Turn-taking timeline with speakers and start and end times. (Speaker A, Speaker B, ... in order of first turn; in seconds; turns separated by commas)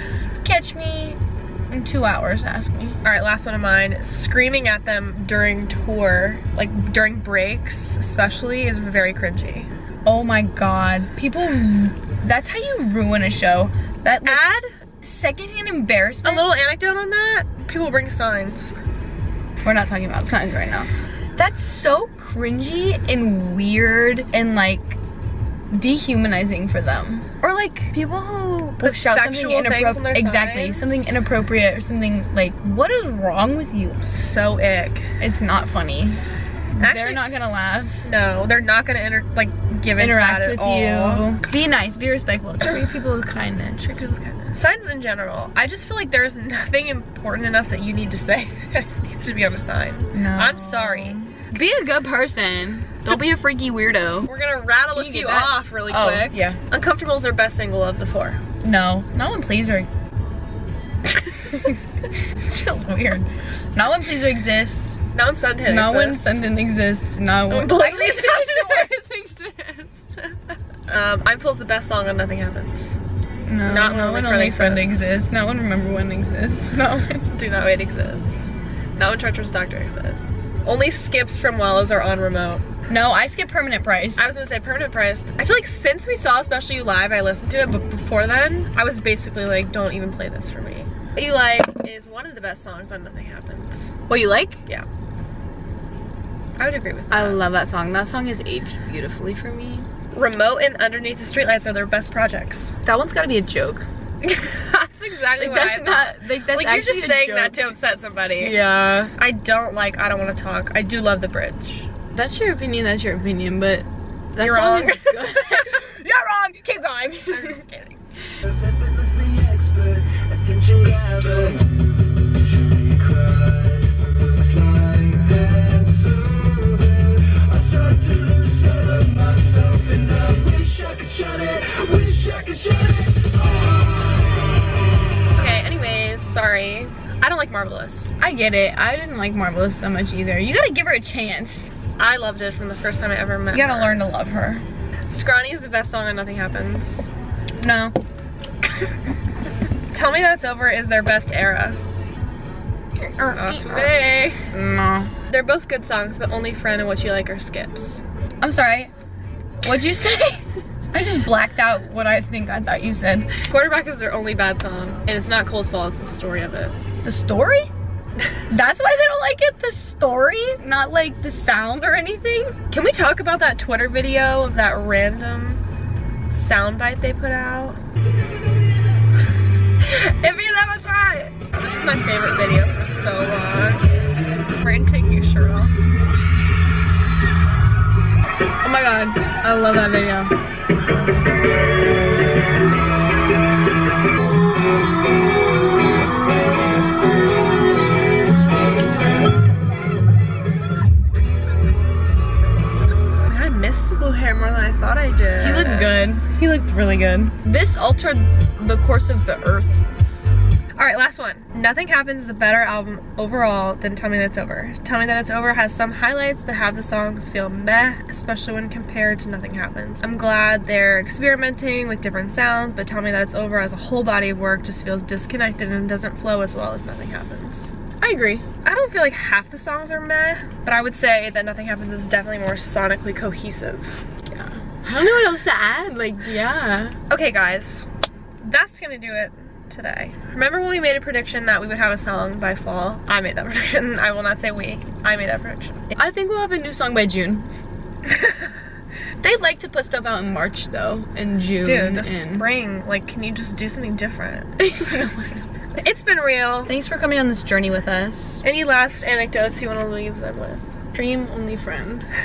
Speaker A: 0.4-1.2, Speaker A: 1.7-3.0, Speaker B: 3.0-9.7, Speaker A: 10.1-14.4, Speaker B: 14.3-14.7, Speaker A: 15.0-16.5, Speaker B: 16.2-18.8, Speaker A: 19.6-25.0, Speaker A: 25.7-34.0, Speaker B: 28.8-31.2, Speaker B: 34.0-35.1, Speaker A: 35.2-36.2, Speaker A: 36.8-38.0, Speaker B: 36.8-37.4, Speaker B: 38.0-41.3, Speaker A: 40.0-44.1, Speaker B: 43.8-51.2, Speaker A: 50.1-54.3, Speaker B: 54.2-58.4, Speaker A: 54.9-56.6, Speaker A: 58.6-59.9, Speaker A: 61.1-65.0, Speaker B: 65.1-66.4, Speaker A: 65.7-68.9, Speaker B: 67.5-73.0, Speaker A: 73.5-77.3, Speaker B: 73.7-75.2, Speaker B: 77.3-82.7, Speaker A: 82.9-84.3, Speaker B: 84.2-93.9, Speaker A: 94.1-94.6, Speaker B: 96.6-97.4, Speaker A: 97.1-99.9, Speaker B: 100.1-102.8, Speaker A: 102.8-103.9, Speaker B: 104.2-108.6, Speaker A: 105.4-107.6, Speaker A: 108.4-109.1, Speaker B: 109.2-111.9, Speaker A: 112.1-117.6, Speaker B: 114.4-115.8, Speaker B: 117.3-118.0, Speaker C: 118.4-133.8, Speaker B: 135.3-138.1, Speaker A: 138.2-141.7, Speaker B: 142.0-144.1, Speaker A: 143.5-144.6, Speaker B: 145.1-147.1, Speaker A: 147.6-148.0, Speaker B: 149.9-151.8, Speaker A: 153.0-154.0, Speaker B: 153.3-154.4, Speaker A: 154.5-155.1, Speaker B: 155.3-158.0, Speaker A: 158.4-158.9, Speaker A: 159.6-163.3, Speaker B: 163.4-166.8, Speaker A: 167.0-167.7, Speaker A: 168.5-172.6, Speaker B: 172.7-175.6, Speaker B: 176.3-177.8, Speaker B: 179.8-183.9, Speaker B: 184.6-185.7, Speaker A: 188.6-190.4, Speaker B: 203.3-206.0, Speaker A: 205.4-209.8, Speaker B: 210.8-227.7, Speaker A: 228.0-228.4, Speaker B: 228.6-233.9, Speaker A: 234.3-237.0, Speaker B: 237.1-237.9, Speaker B: 238.4-245.8, Speaker A: 245.9-247.5, Speaker B: 248.1-248.4, Speaker A: 249.2-252.5, Speaker B: 251.6-254.6, Speaker A: 254.6-255.5, Speaker B: 255.8-256.7, Speaker A: 256.7-258.4, Speaker B: 258.4-260.7, Speaker A: 260.9-262.1